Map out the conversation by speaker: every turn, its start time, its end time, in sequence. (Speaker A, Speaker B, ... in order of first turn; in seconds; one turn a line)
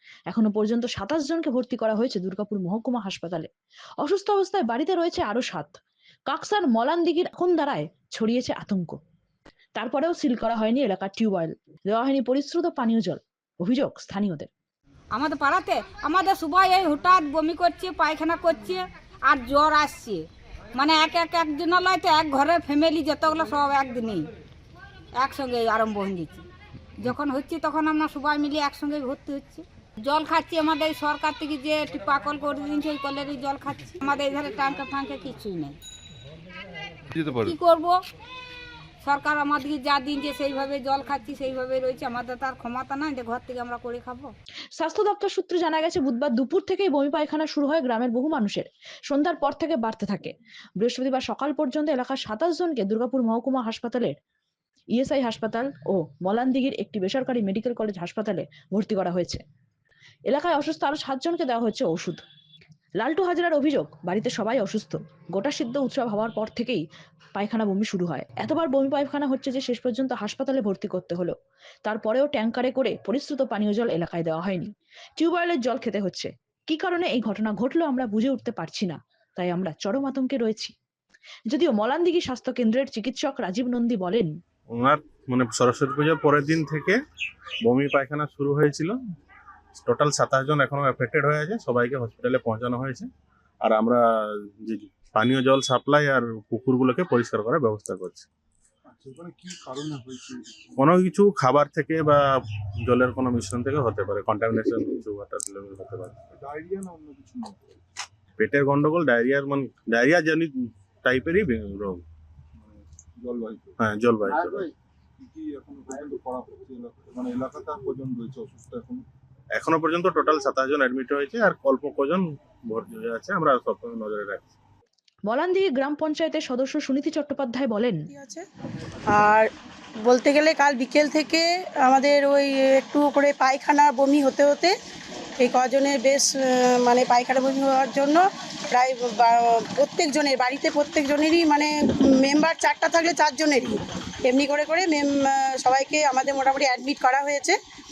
Speaker A: 0.3-3.5
Speaker A: 4.0-5.8
Speaker A: 6.3-9.0
Speaker A: 9.8-14.5
Speaker B: 15.1-20.2
Speaker B: 20.8-24.2
Speaker B: 25.2-26.4
Speaker B: 27.0-35.8
Speaker B: 37.2-38.0
Speaker B: 39.0-44.3
Speaker A: 44.8-54.1
Speaker A: 54.9-59.4
Speaker A: 60.3-62.2
Speaker A: 63.0-66.8
Speaker A: 67.3-71.3
Speaker A: 71.8-80.7
Speaker A: 81.5-84.3
Speaker C: 84.7-87.0
Speaker C: 87.6-89.0
Speaker C: 89.8-93.1
Speaker C: 93.6-94.0
Speaker C: 94.7-98.3
Speaker D: 98.9-100.6
Speaker C: 100.8-102.2
Speaker C: 102.9-106.3
Speaker D: 106.3-107.6
Speaker C: 108.4-110.5
Speaker C: 111.0-112.0
Speaker D: 112.6-113.8
Speaker C: 113.8-114.7
Speaker D: 114.3-119.0
Speaker C: 119.5-124.6
Speaker A: 125.3-128.0
Speaker E: 128.1-128.4
Speaker E: 129.1-129.5
Speaker E: 130.1-134.7
Speaker E: 135.4-147.6